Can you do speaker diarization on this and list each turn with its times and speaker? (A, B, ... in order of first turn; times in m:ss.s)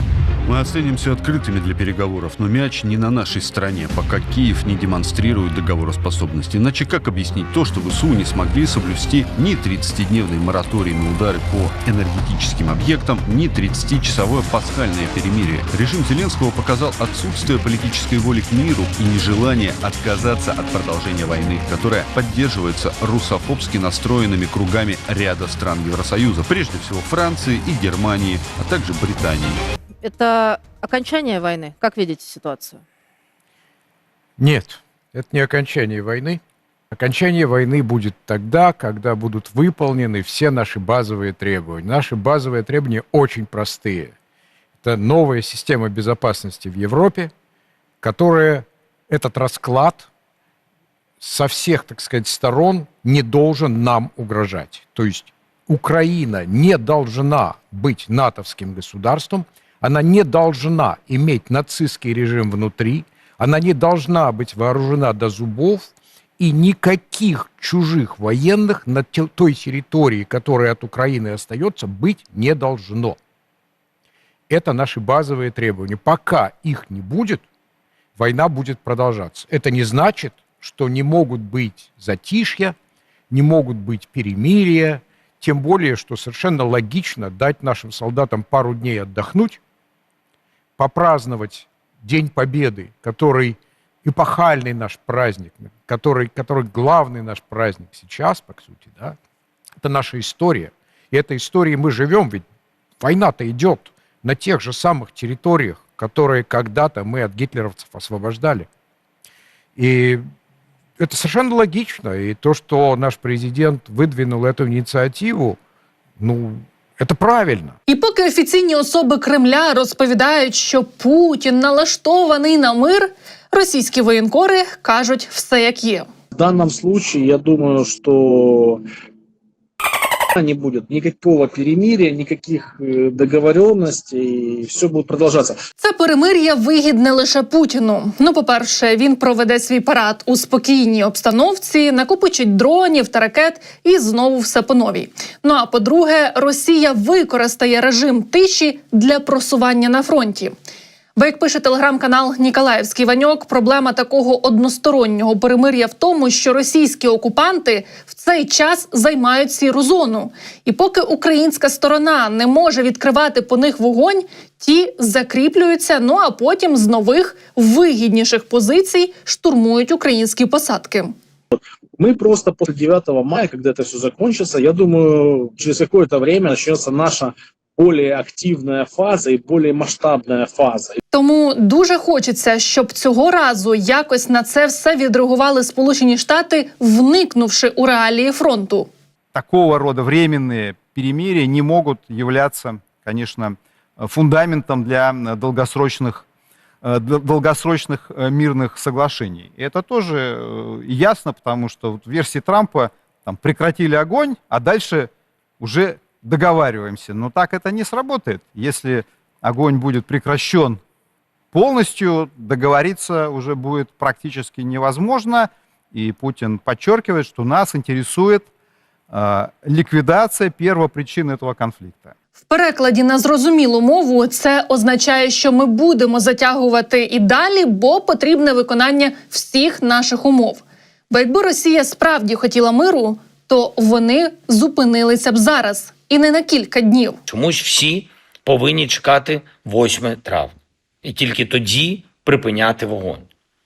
0:00.4-0:29.6 A
0:30.0-0:32.8 B
0:34.4-0:36.4 C
0:36.9-0:44.1 C
0:44.8-0:47.3 C
0:48.0-0:50.1 C
0:51.2-1:13.2 C
1:14.5-1:17.4 C
1:18.2-1:22.8 C
1:23.3-1:29.6 C
1:30.8-1:39.2 C
1:39.8-1:42.4 C
1:43.0-1:48.6 C
1:49.8-1:50.2 C
1:51.0-1:55.6 C
1:56.2-1:57.7 C
1:57.9-2:06.1 D
2:06.3-2:08.8 E
2:10.3-2:15.6 E
2:15.8-2:30.5 D
2:31.2-2:51.1 D
2:51.5-3:01.0 E
3:01.1-3:08.9 D
3:09.3-3:16.2 F
3:16.8-3:30.8 F
3:31.5-3:38.5 F
3:39.1-3:42.1 F
3:42.5-3:57.2 D
3:57.3-4:03.2 G